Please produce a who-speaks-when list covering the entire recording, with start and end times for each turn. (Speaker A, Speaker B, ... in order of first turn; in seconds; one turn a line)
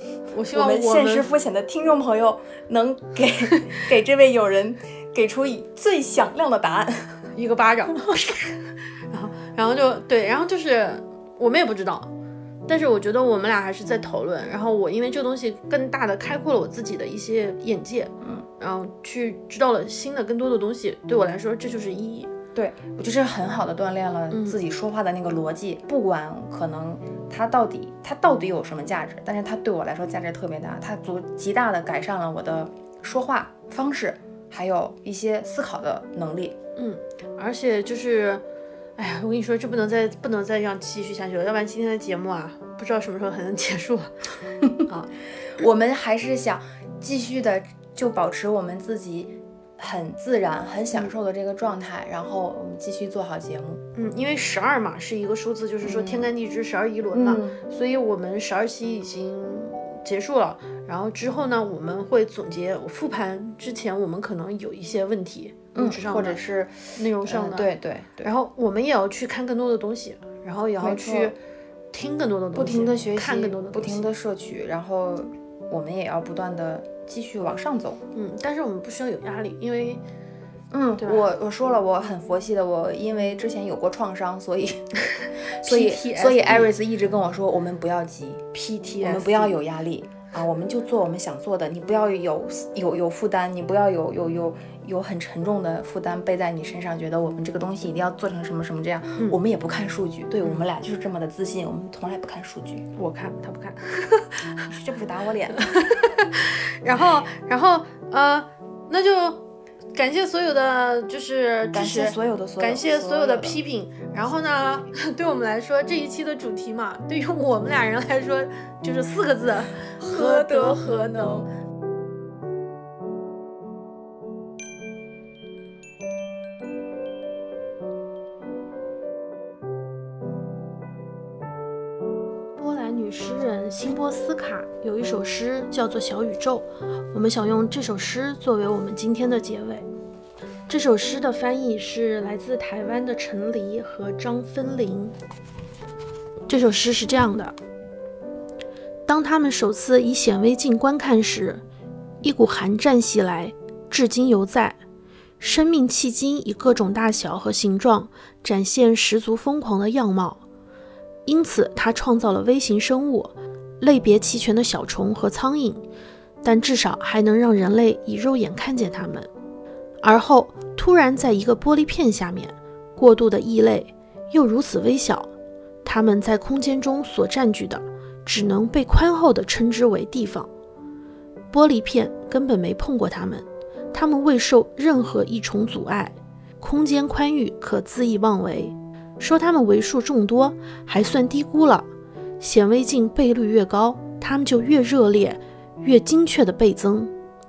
Speaker A: 0.3-1.3
Speaker B: 0.5-7.3
Speaker A: 7.3-12.1
Speaker A: 12.7-22.3
Speaker B: 22.6-36.6
Speaker A: 24.3-24.6
Speaker A: 36.8-38.4
Speaker A: 39.0-44.2
Speaker A: 44.8-45.1
Speaker B: 45.6-53.8
Speaker A: 54.0-66.4
Speaker B: 55.8-56.3
Speaker B: 57.1-57.6
Speaker B: 65.8-68.3
Speaker A: 67.0-67.7
Speaker A: 68.2-71.4
Speaker B: 70.8-71.3
Speaker A: 71.9-74.1
Speaker B: 72.5-78.0
Speaker A: 78.1-80.0
Speaker B: 80.7-84.9
Speaker A: 85.2-86.7
Speaker B: 85.6-88.5
Speaker A: 88.5-89.6
Speaker B: 89.0-102.9
Speaker A: 103.0-104.7
Speaker B: 104.7-105.9
Speaker A: 105.5-109.4
Speaker A: 109.9-121.4
Speaker B: 111.7-113.6
Speaker B: 120.0-121.5
Speaker A: 132.6-139.9
Speaker A: 140.7-145.2
Speaker A: 146.5-147.6
Speaker A: 149.1-151.6
Speaker A: 152.2-154.8
Speaker A: 155.4-160.4
Speaker A: 161.3-165.8
Speaker A: 166.4-169.3
Speaker A: 170.0-175.3
Speaker A: 175.8-180.5
Speaker A: 181.5-191.9
Speaker A: 192.4-197.1